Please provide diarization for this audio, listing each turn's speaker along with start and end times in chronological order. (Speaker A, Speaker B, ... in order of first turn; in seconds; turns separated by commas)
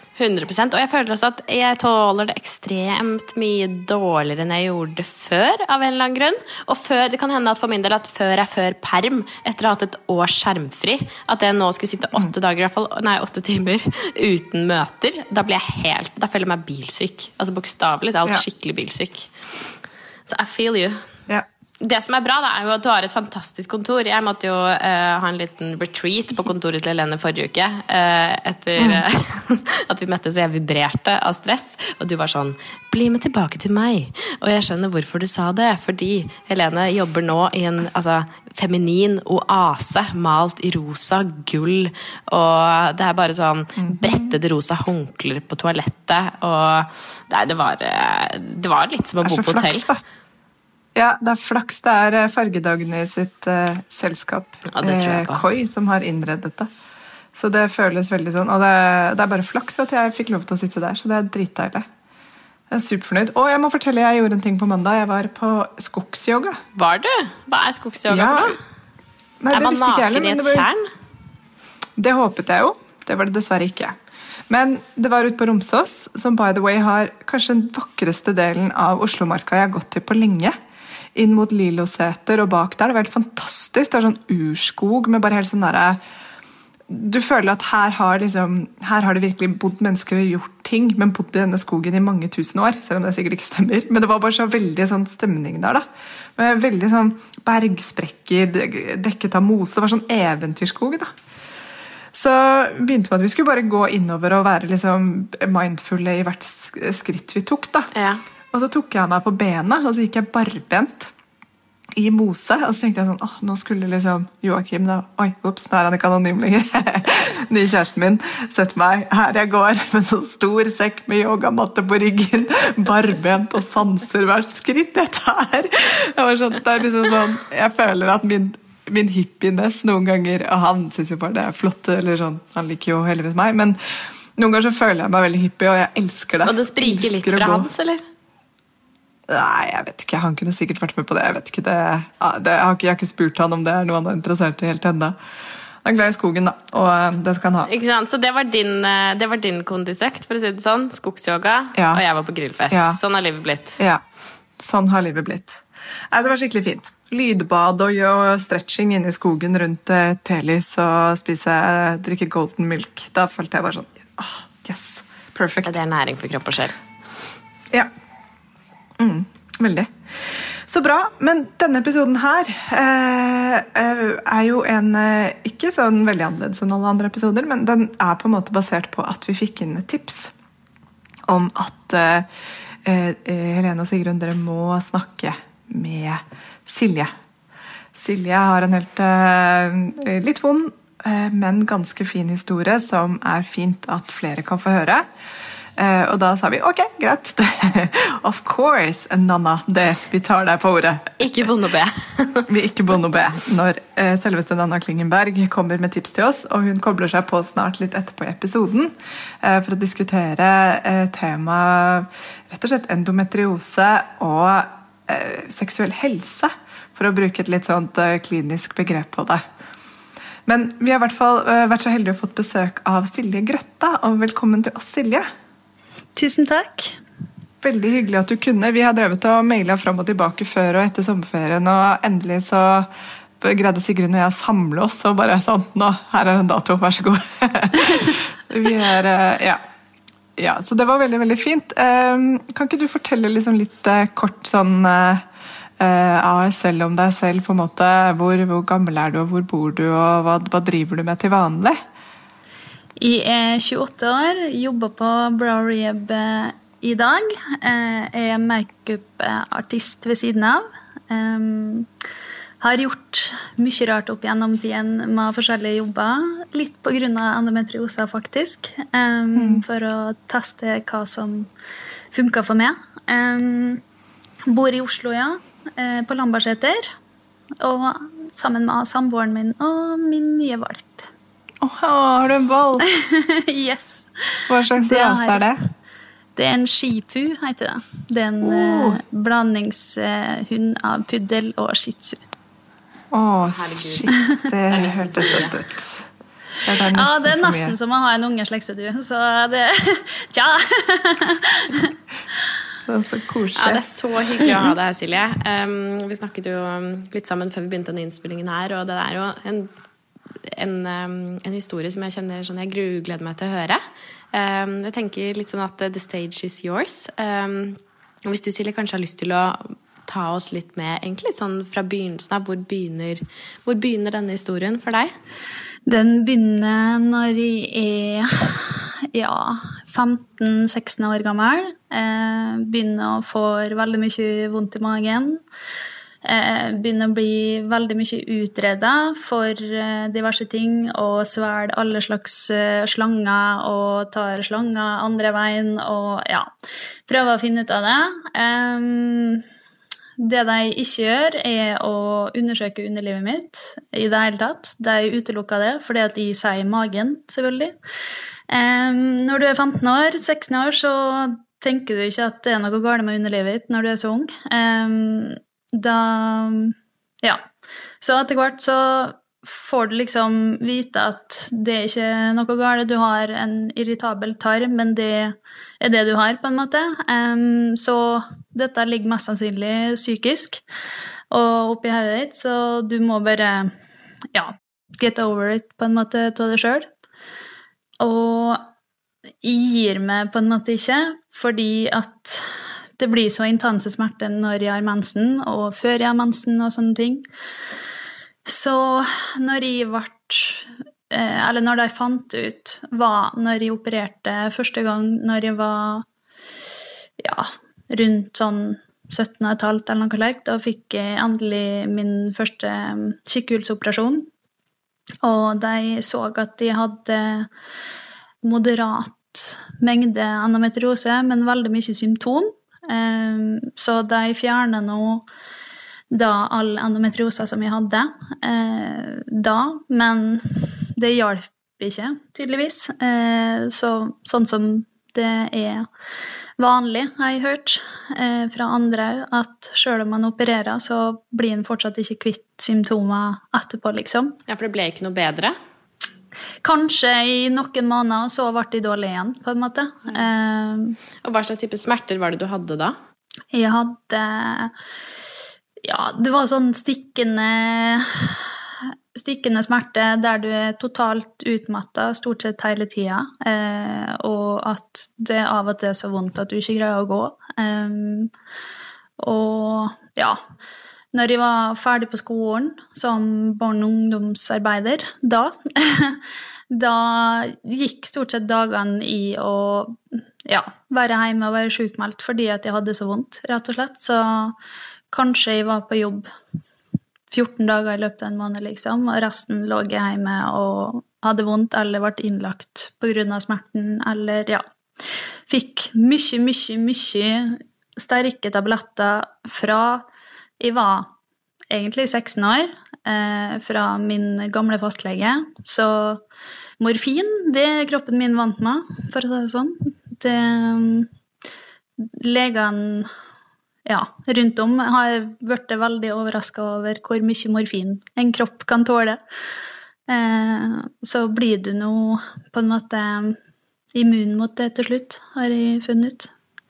Speaker A: 0.2-21.0, Speaker A: 21.8-49.9, Speaker B: 28.8-29.0, Speaker B: 43.8-44.3, Speaker B: 49.2-50.0, Speaker B: 51.0-56.7, Speaker A: 54.7-55.4, Speaker B: 57.3-61.9, Speaker B: 62.7-66.6, Speaker A: 66.8-68.6, Speaker B: 68.1-68.6, Speaker B: 69.4-70.7, Speaker A: 69.5-70.8, Speaker B: 72.0-74.0, Speaker B: 74.5-80.6, Speaker B: 81.2-86.0, Speaker B: 86.9-95.8, Speaker B: 96.4-101.1, Speaker B: 102.1-107.9, Speaker A: 108.0-108.2, Speaker B: 108.5-111.1, Speaker B: 112.0-137.7, Speaker A: 136.4-138.0, Speaker B: 139.3-145.2, Speaker B: 145.8-147.7, Speaker A: 147.7-153.8, Speaker B: 151.8-152.0, Speaker B: 152.7-153.0, Speaker B: 154.6-165.8, Speaker A: 165.6-166.8, Speaker B: 169.0-180.3, Speaker B: 181.3-182.3, Speaker B: 182.8-187.1, Speaker B: 187.9-195.1, Speaker B: 195.8-201.1, Speaker A: 201.2-202.5, Speaker B: 202.5-219.4, Speaker B: 220.5-225.3, Speaker C: 226.2-227.0, Speaker B: 227.6-239.6, Speaker B: 240.4-245.2, Speaker B: 245.8-251.8, Speaker C: 253.0-261.9, Speaker C: 262.6-271.5, Speaker B: 269.4-269.6, Speaker C: 272.1-273.8, Speaker C: 274.5-276.9, Speaker C: 277.6-281.1, Speaker B: 281.6-282.9, Speaker C: 282.9-285.4, Speaker B: 284.5-285.6, Speaker C: 286.4-292.2, Speaker B: 288.4-289.0, Speaker B: 293.1-296.1, Speaker A: 293.5-295.6, Speaker B: 296.6-297.8, Speaker C: 296.8-301.9, Speaker B: 302.9-304.7, Speaker A: 303.6-309.7, Speaker A: 310.4-313.8, Speaker A: 314.3-325.1, Speaker C: 325.9-335.4, Speaker C: 336.2-346.5, Speaker C: 347.1-349.4, Speaker C: 350.2-357.8, Speaker C: 358.5-367.4, Speaker C: 368.0-380.6, Speaker C: 381.3-383.7, Speaker C: 384.3-386.9, Speaker C: 388.0-388.7, Speaker C: 389.4-397.2, Speaker C: 398.5-406.1, Speaker C: 407.2-414.3, Speaker C: 415.2-417.5, Speaker C: 418.4-425.3, Speaker C: 426.1-435.9, Speaker C: 436.6-444.4, Speaker A: 444.5-445.5, Speaker C: 446.6-451.0, Speaker A: 451.2-453.0, Speaker C: 453.5-454.7, Speaker C: 455.8-458.5, Speaker C: 459.1-468.3, Speaker C: 469.2-470.4, Speaker C: 471.1-484.6, Speaker C: 485.1-486.3, Speaker C: 487.3-494.6, Speaker C: 495.5-500.1, Speaker C: 500.6-501.1, Speaker C: 501.7-506.2, Speaker C: 506.8-511.1, Speaker C: 512.0-513.1, Speaker C: 513.9-519.2, Speaker C: 520.1-523.4, Speaker C: 523.9-526.3